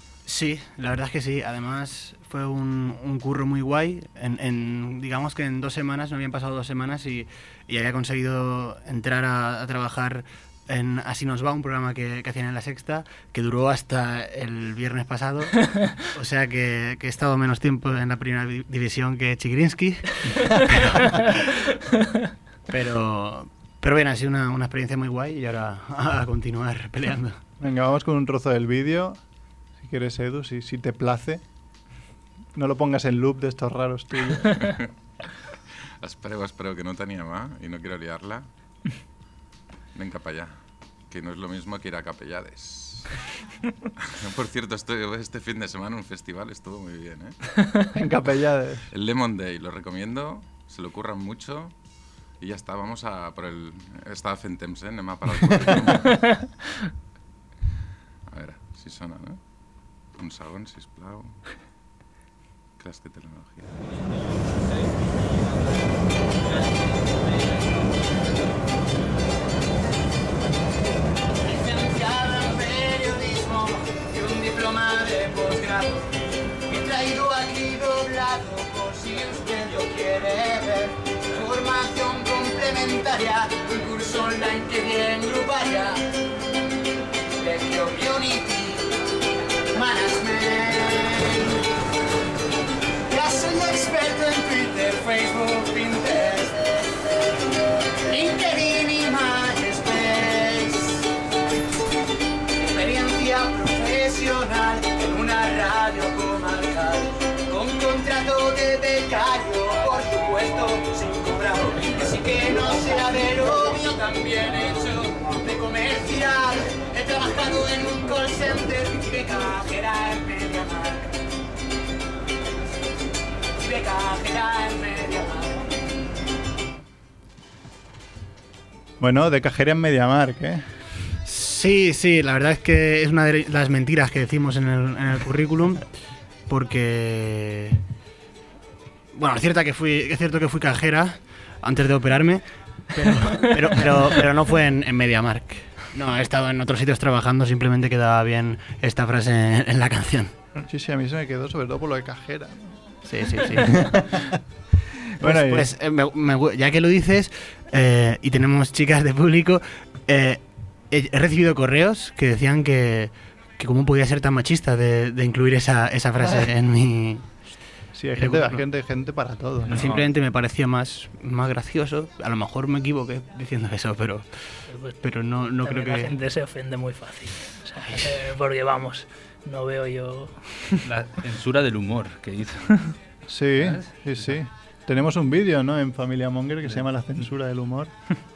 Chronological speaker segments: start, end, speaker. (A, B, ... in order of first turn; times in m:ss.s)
0:00.2-0:21.6 A
0:22.7-0:27.4 A
0:27.6-0:29.2 B
0:29.8-0:31.4 B
0:32.5-0:34.8 B
0:34.6-0:34.9 C
0:36.0-0:38.4 C
0:39.9-0:40.5 C
0:41.1-0:43.1 C
0:44.0-0:47.4 C
0:47.9-0:48.9 B
0:48.9-0:51.7 C
0:52.4-0:56.3 C
0:55.5-0:55.9 B
0:58.3-0:59.4 C
1:00.2-1:01.4 C
1:02.8-1:03.7 C
1:11.4-1:16.1 D
1:16.7-1:26.0 D
1:27.4-1:29.0 D
1:29.7-1:31.6 D
1:33.1-1:36.6 D
1:38.0-1:41.1 D
1:42.6-2:01.2 D
2:03.6-2:05.7 D
2:09.0-2:10.6 B
2:11.2-2:15.8 A
2:16.5-2:17.8 A
2:19.1-2:30.3 A
2:30.6-2:32.8 B
2:33.0-2:34.0 A
2:33.4-2:34.4 B
2:35.2-2:35.7 B
2:35.2-2:47.3 A
2:47.9-2:50.0 B
2:48.2-2:48.6 A
2:49.7-2:50.1 E
2:49.7-2:54.2 A
2:54.7-2:55.0 F
2:55.0-2:56.1 A
2:55.6-3:00.4 F
2:57.8-2:58.2 A
3:00.8-3:02.7 E
3:03.2-3:07.9 B
3:03.6-3:04.3 E